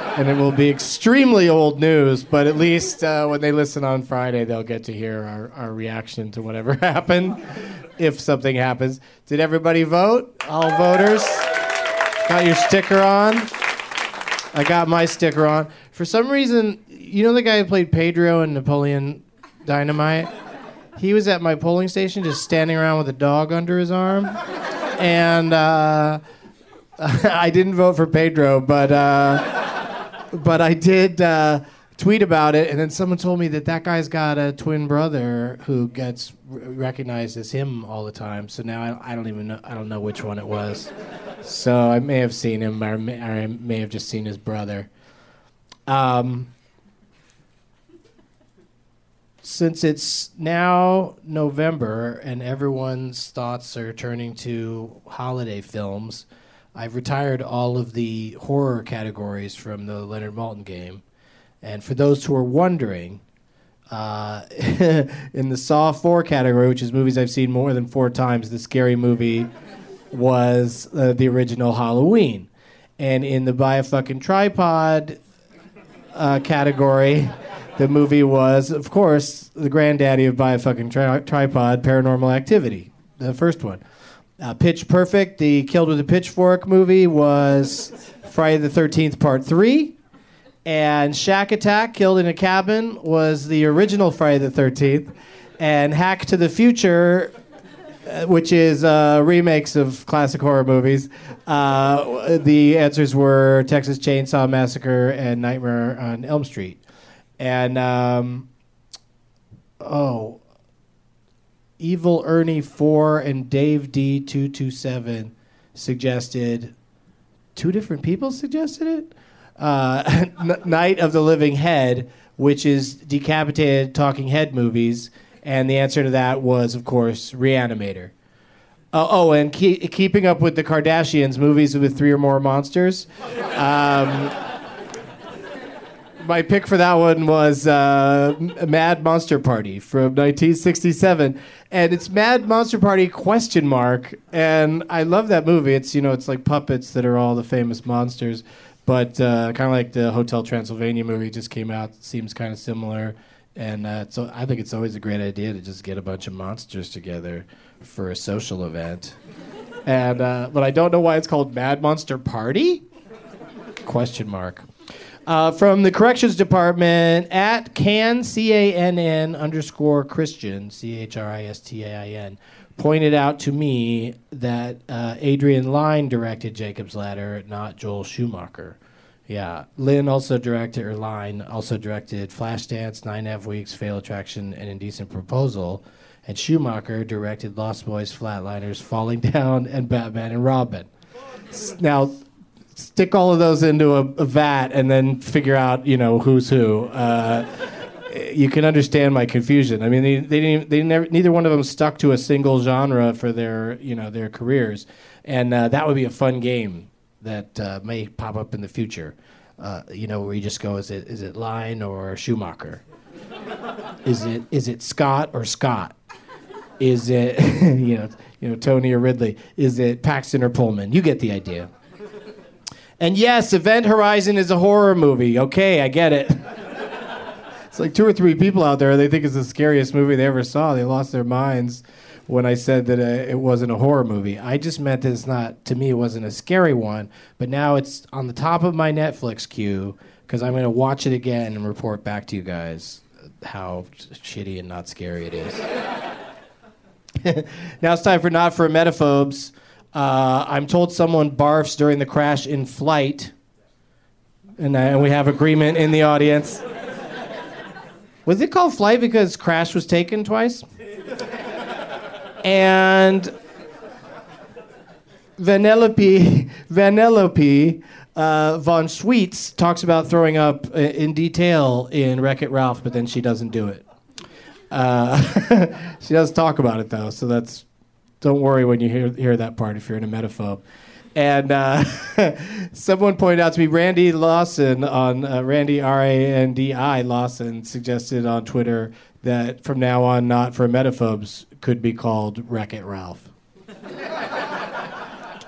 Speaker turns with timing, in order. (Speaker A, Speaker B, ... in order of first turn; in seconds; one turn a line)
Speaker A: 0.1-11.5
Speaker A: 12.2-13.5
Speaker A: 14.5-20.3
Speaker A: 21.0-24.4
Speaker A: 25.0-26.2
Speaker A: 27.0-44.9
Speaker A: 45.9-46.5
Speaker A: 49.4-61.0
Speaker A: 61.6-63.2
Speaker A: 63.9-69.5
Speaker A: 70.1-72.5
Speaker A: 73.0-75.2
Speaker A: 76.1-83.8
Speaker A: 84.4-90.0
Speaker A: 90.7-97.3
Speaker A: 98.0-106.8
Speaker A: 107.4-108.5
Speaker A: 109.8-110.4
Speaker A: 111.8-116.7
Speaker A: 117.6-128.1
Speaker A: 128.9-134.3
Speaker A: 136.2-159.2
Speaker A: 159.8-162.8
Speaker A: 163.8-164.7
Speaker A: 165.3-190.9
Speaker A: 191.5-192.2
Speaker A: 192.8-212.8
Speaker A: 214.1-215.9
Speaker A: 216.8-221.7
Speaker A: 223.0-226.5
Speaker A: 227.7-245.6
Speaker A: 247.2-253.3
Speaker A: 254.6-256.6
Speaker A: 258.2-260.6
Speaker A: 262.4-263.3
Speaker A: 265.4-273.8
Speaker A: 274.7-277.6
Speaker A: 278.2-280.6
Speaker A: 281.1-293.3